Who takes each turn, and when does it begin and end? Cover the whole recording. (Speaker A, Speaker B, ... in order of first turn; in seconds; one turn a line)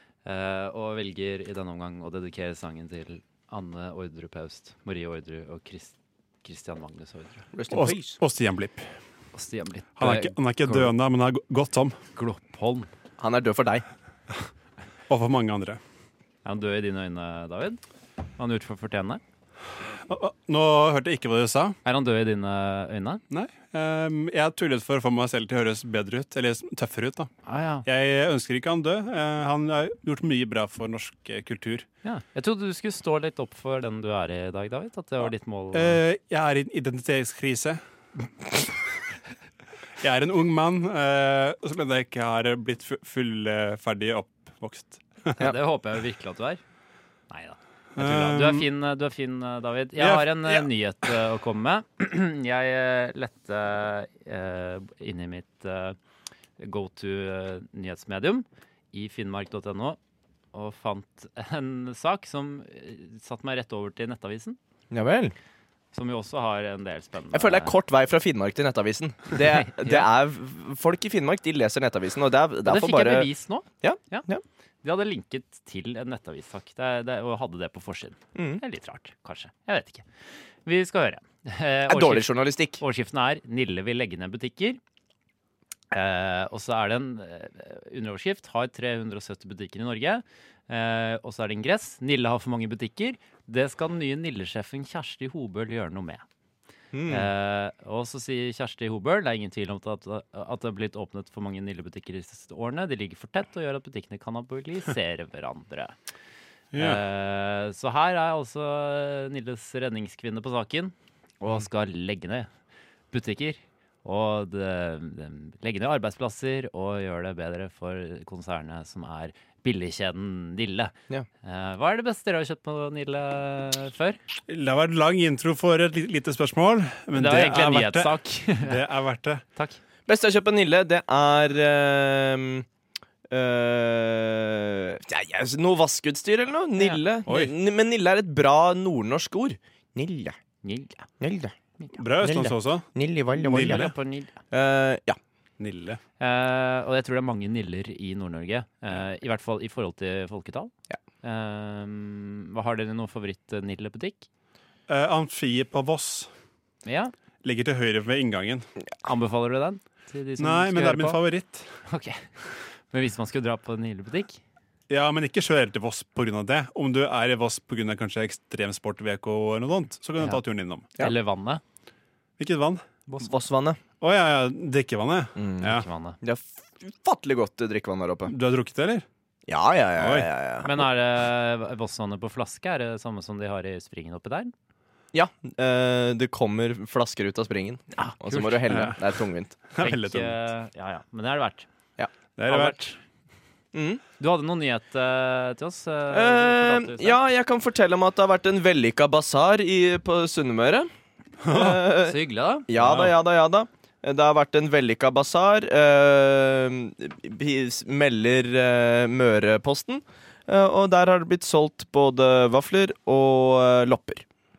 Speaker A: 0.2-7.5
Speaker B: 7.5-8.2
Speaker C: 7.7-8.9
Speaker A: 9.3-10.9
Speaker C: 10.0-12.0
Speaker A: 12.1-12.9
Speaker B: 13.2-13.8
Speaker C: 15.1-15.8
Speaker A: 16.4-17.8
Speaker A: 18.4-19.2
Speaker C: 20.1-21.8
Speaker A: 21.8-23.2
Speaker C: 23.3-27.3
Speaker A: 27.4-27.8
Speaker C: 27.8-31.9
Speaker A: 32.0-36.0
Speaker C: 35.7-38.6
Speaker C: 40.0-45.4
Speaker A: 45.4-46.6
Speaker A: 47.3-56.0
Speaker C: 48.0-48.7
Speaker C: 50.0-50.7
Speaker A: 56.6-60.0
Speaker A: 60.5-64.6
Speaker B: 64.9-65.3
Speaker A: 65.9-67.7
Speaker B: 67.3-73.3
Speaker A: 69.3-70.1
Speaker A: 72.6-74.3
Speaker B: 73.8-74.4
Speaker A: 74.8-80.0
Speaker B: 78.3-78.6
Speaker A: 80.6-84.8
Speaker B: 81.9-82.8
Speaker A: 85.9-96.2
Speaker B: 96.9-97.3
Speaker A: 97.1-105.9
Speaker C: 106.7-107.0
Speaker A: 106.7-112.5
Speaker A: 113.1-124.2
Speaker C: 124.5-129.4
Speaker A: 127.1-128.8
Speaker B: 130.1-132.7
Speaker B: 133.3-140.3
Speaker C: 137.3-137.5
Speaker A: 140.6-141.1
Speaker B: 141.2-141.5
Speaker C: 141.9-142.9
Speaker B: 142.2-143.9
Speaker A: 143.4-144.3
Speaker C: 143.4-143.9
Speaker B: 144.5-145.2
Speaker C: 145.6-146.0
Speaker A: 146.2-154.3
Speaker C: 154.9-156.3
Speaker A: 156.8-157.1
Speaker C: 157.4-158.7
Speaker A: 159.0-161.2
Speaker C: 160.4-161.7
Speaker A: 161.8-162.3
Speaker A: 162.9-164.4
Speaker C: 164.9-170.9
Speaker A: 171.0-171.6
Speaker C: 172.4-172.8
Speaker B: 173.2-173.8
Speaker C: 174.0-175.8
Speaker B: 175.3-178.3
Speaker A: 175.7-176.2
Speaker C: 178.3-179.1
Speaker B: 179.5-180.8
Speaker C: 180.0-180.3
Speaker A: 180.6-184.5
Speaker B: 185.1-189.6
Speaker A: 187.9-188.9
Speaker C: 188.7-189.0
Speaker C: 189.7-190.3
Speaker A: 189.8-191.7
Speaker C: 192.4-192.9
Speaker A: 192.5-192.9
Speaker B: 193.7-194.0
Speaker A: 194.2-197.2
Speaker B: 196.1-200.9
Speaker C: 201.4-201.8
Speaker B: 201.5-214.2
Speaker A: 202.0-202.7
Speaker C: 202.8-203.1